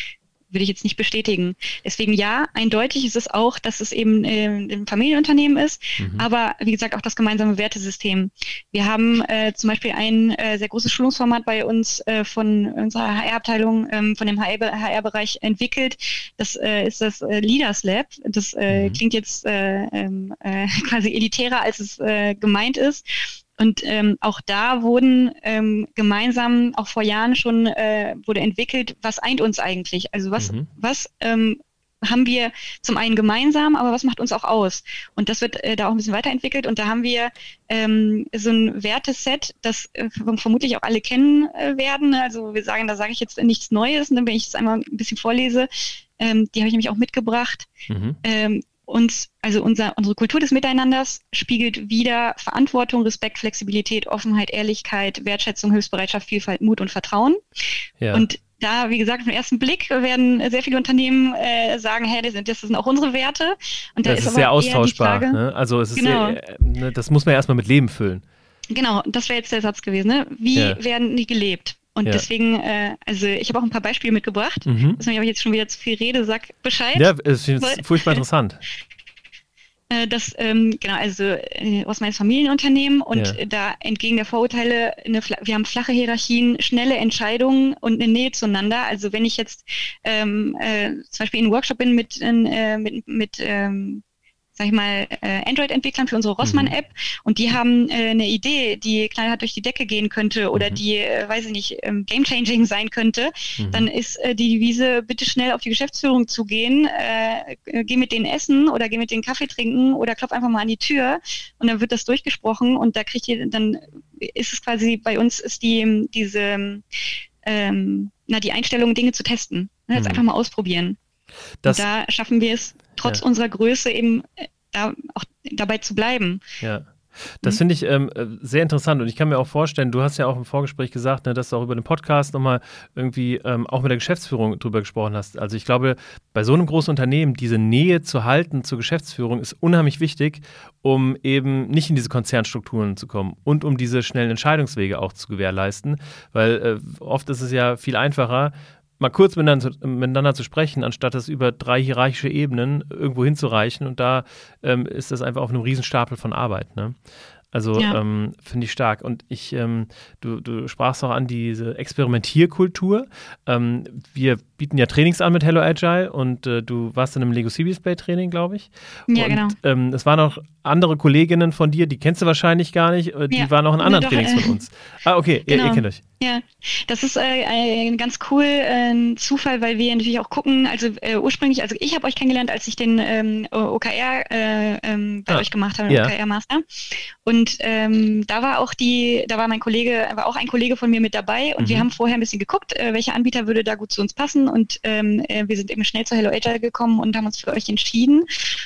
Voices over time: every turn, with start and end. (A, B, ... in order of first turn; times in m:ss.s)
0:00.5-0:47.7 A
0:06.0-0:06.3 B
0:18.7-0:19.0 B
0:30.4-0:30.7 B
0:47.9-0:48.2 B
0:48.2-0:57.4 A
0:58.0-0:58.3 B
0:58.1-1:05.4 A
1:04.0-1:08.2 B
1:06.0-1:06.4 A
1:08.7-1:18.2 A
1:10.6-1:10.8 B
1:14.7-1:15.0 B
1:17.0-1:18.6 B
1:19.9-1:34.0 A
1:34.6-1:56.8 A
1:36.4-1:36.7 B
1:43.6-1:43.9 B
1:57.4-2:01.0 A
2:00.0-2:00.2 B
2:01.7-2:06.4 A
2:06.6-2:37.0 B
2:37.5-2:56.0 B
2:49.1-2:49.6 A
2:53.3-2:54.6 A
2:55.5-3:18.3 A
3:05.3-3:06.1 B
3:11.6-3:11.9 B